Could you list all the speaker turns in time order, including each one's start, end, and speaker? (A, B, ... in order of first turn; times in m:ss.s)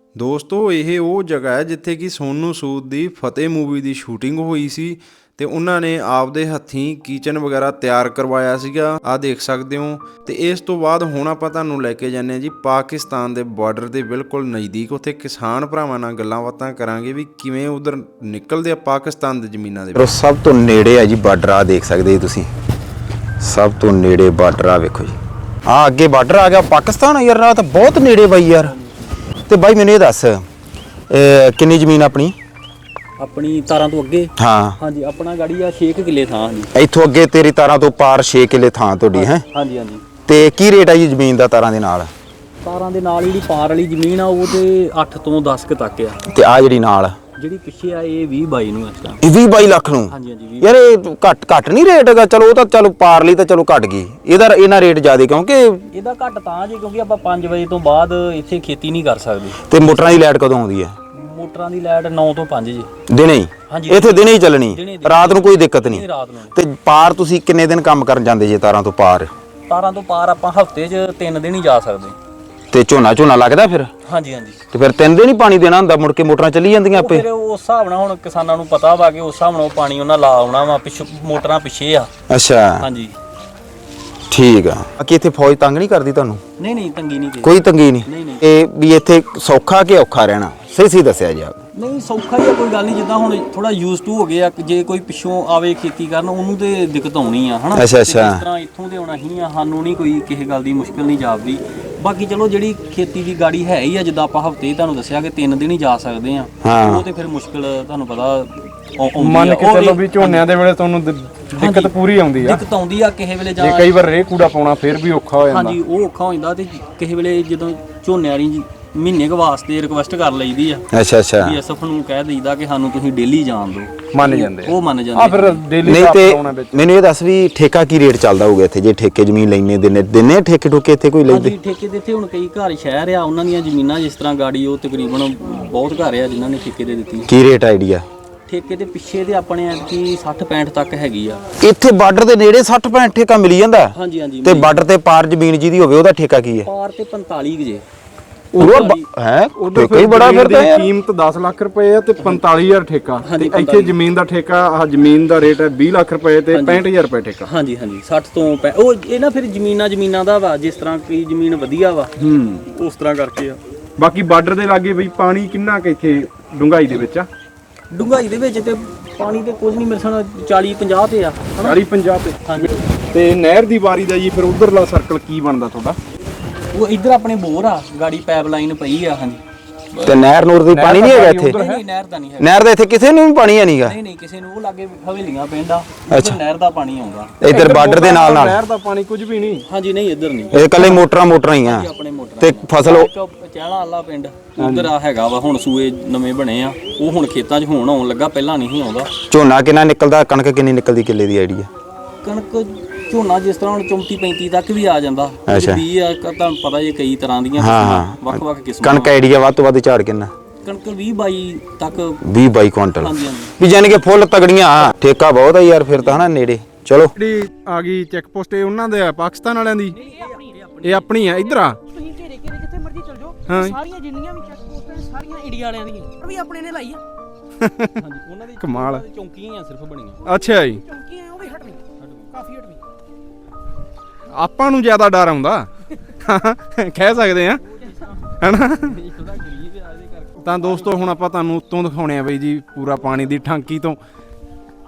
0:00.2-0:20.1 A
0:19.9-0:22.5 B
0:23.4-0:25.2 B
0:25.7-0:28.7 B
0:28.6-0:28.9 C
0:29.5-0:30.4 B
0:31.1-0:32.4 B
0:33.2-0:36.7 C
0:34.4-0:34.8 B
0:36.7-0:39.4 B
0:39.1-0:40.0 C
0:40.2-0:42.1 B
0:42.6-0:46.2 C
0:46.3-0:47.2 B
0:47.4-0:49.2 C
0:49.2-0:55.9 B
0:50.1-0:50.7 C
0:55.9-0:59.6 C
0:59.6-1:01.0 B
1:01.1-1:02.9 C
1:03.1-1:09.3 B
1:03.7-1:06.5 C
1:09.7-1:12.2 C
1:12.7-1:13.9 B
1:14.0-1:14.6 C
1:14.7-1:17.2 B
1:16.9-1:22.1 C
1:22.3-1:22.9 B
1:22.8-1:23.2 C
1:24.3-1:26.4 B
1:26.6-1:28.4 C
1:27.4-1:31.6 B
1:31.7-1:50.4 C
1:37.7-1:38.4 B
1:46.6-1:47.0 B
1:49.2-1:52.6 D
1:51.6-1:53.9 C
1:53.6-1:55.8 D
1:55.5-2:00.8 C
2:00.9-2:01.6 B
2:01.4-2:05.6 C
2:04.1-2:06.8 D
2:05.8-2:11.5 B
2:11.3-2:17.3 C
2:17.3-2:18.0 B
2:18.5-2:21.4 C
2:21.6-2:26.7 B
2:23.9-2:24.7 C
2:26.6-2:27.8 C
2:28.6-2:29.0 C
2:28.6-2:30.9 B
2:29.6-2:37.5 D
2:33.2-2:33.9 C
2:36.5-2:36.8 C
2:37.4-2:42.1 C
2:42.2-2:42.6 D
2:42.6-2:43.6 C
2:44.0-2:47.3 D
2:47.9-2:51.8 C
2:51.6-2:56.0 D
2:52.4-2:52.7 C
2:56.7-2:59.4 C
2:59.9-3:00.2 C
3:00.0-3:01.6 B
3:00.7-3:01.8 D
3:00.9-3:02.5 C
3:02.4-3:04.0 B
3:03.8-3:07.7 C
3:06.1-3:06.4 B
3:07.4-3:08.6 B
3:07.5-3:09.6 D
3:09.6-3:11.0 C
3:10.5-3:11.9 B
3:11.6-3:19.1 C
3:12.4-3:13.1 B
3:14.6-3:14.9 D
3:19.2-3:21.7 B
3:22.2-3:29.2 C
3:25.5-3:25.8 B
3:27.6-3:30.3 B
3:30.6-3:32.2 C
3:32.2-3:37.1 B
3:32.9-3:33.6 C
3:35.9-3:36.3 C
3:37.2-3:40.0 D
3:39.9-3:40.6 E
3:39.9-3:41.2 C
3:40.8-3:41.8 D
3:41.2-3:47.0 E
3:43.5-3:43.8 D
3:47.6-3:47.9 D
3:48.0-3:50.2 C
3:48.6-3:49.0 D
3:50.2-3:52.8 E
3:50.2-3:50.8 D
3:52.0-3:52.3 C
3:54.3-3:57.6 D
3:55.9-3:56.2 E
3:57.6-4:01.0 C
3:58.4-3:58.9 D
4:00.4-4:04.0 D